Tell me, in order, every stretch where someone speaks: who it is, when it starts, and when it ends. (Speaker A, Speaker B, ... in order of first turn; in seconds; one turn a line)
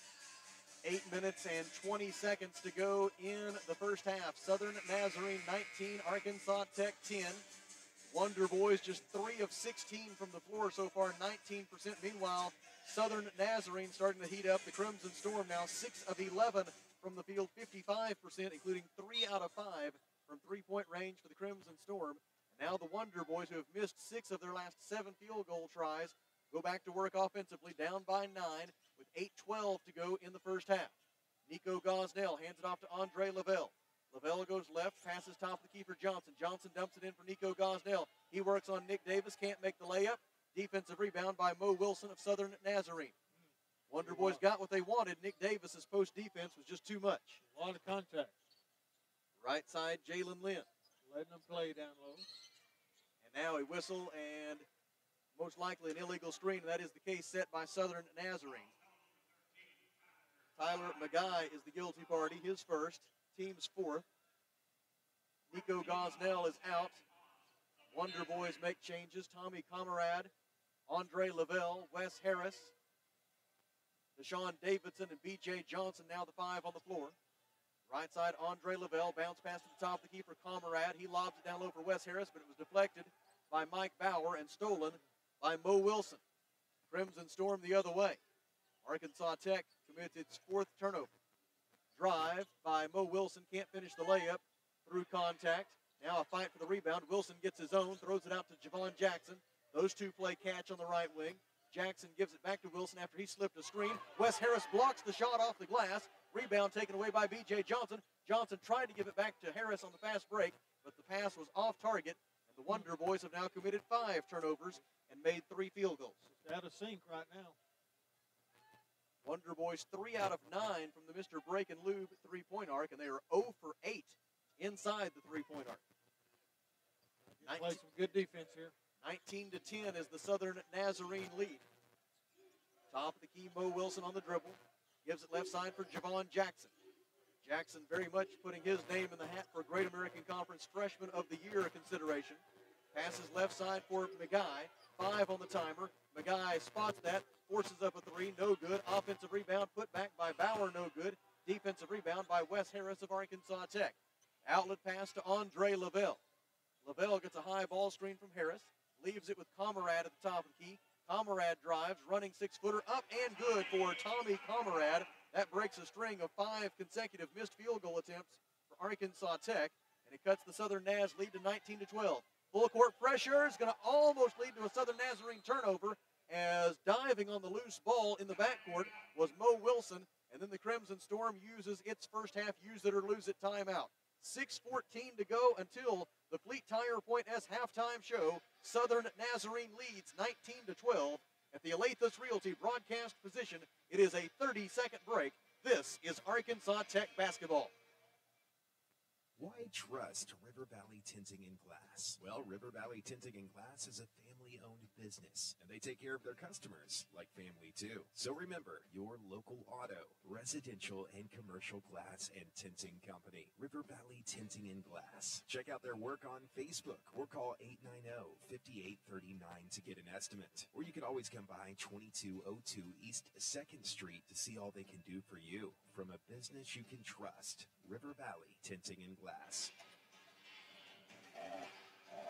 Speaker A: 0.8-7.4
Speaker A: 8.1-30.9
Speaker A: 31.5-43.1
Speaker B: 43.4-44.4
Speaker A: 43.9-47.4
Speaker B: 47.4-48.3
Speaker A: 49.4-50.7
Speaker B: 51.0-52.2
Speaker A: 53.2-54.6
Speaker A: 55.3-58.7
Speaker A: 60.5-64.0
Speaker A: 65.5-67.0
Speaker A: 67.9-70.3
Speaker A: 70.9-72.7
Speaker A: 74.2-77.1
Speaker A: 77.9-86.2
Speaker A: 86.9-88.2
Speaker A: 88.8-91.1
Speaker A: 91.9-116.2
Speaker B: 116.2-117.6
Speaker A: 119.2-125.8
Speaker B: 127.4-128.7
Speaker A: 127.4-127.8
Speaker A: 129.0-131.6
Speaker A: 132.9-136.7
Speaker A: 137.4-142.4
Speaker A: 142.9-156.2
Speaker A: 156.8-197.7
Speaker C: 199.3-229.7